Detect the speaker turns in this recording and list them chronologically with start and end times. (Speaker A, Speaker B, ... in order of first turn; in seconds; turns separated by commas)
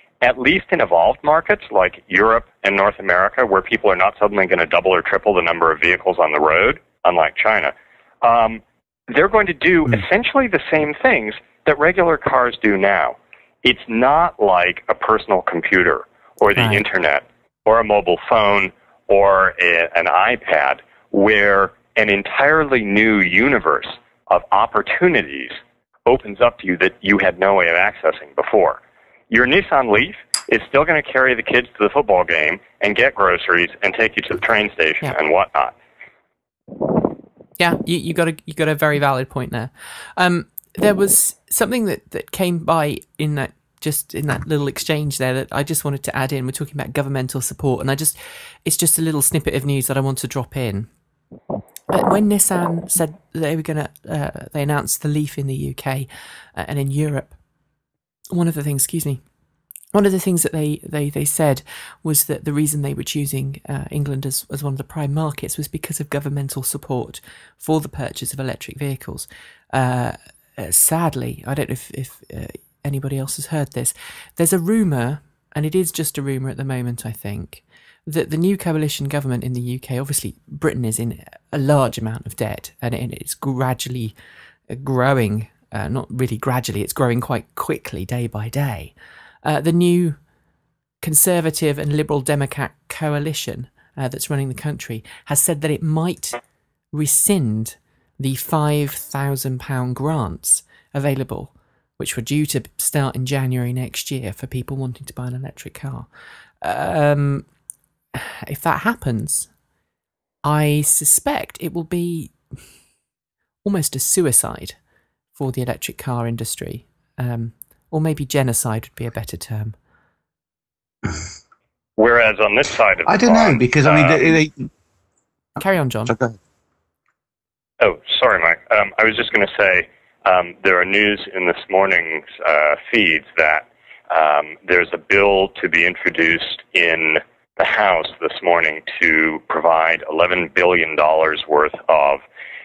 Speaker A: 0.2-35.7, Speaker B: 16.6-16.8, Speaker B: 37.6-50.9, Speaker B: 51.9-57.4, Speaker B: 58.3-59.2, Speaker B: 59.9-84.1, Speaker B: 84.7-88.9, Speaker B: 89.4-90.2, Speaker B: 91.0-96.4, Speaker B: 96.9-106.1, Speaker B: 106.6-107.5, Speaker B: 108.1-109.5, Speaker B: 110.4-112.4, Speaker B: 113.6-114.8, Speaker B: 115.3-119.8, Speaker A: 122.0-124.4, Speaker C: 123.1-124.7, Speaker B: 125.6-126.2, Speaker C: 126.1-126.4, Speaker A: 127.8-142.2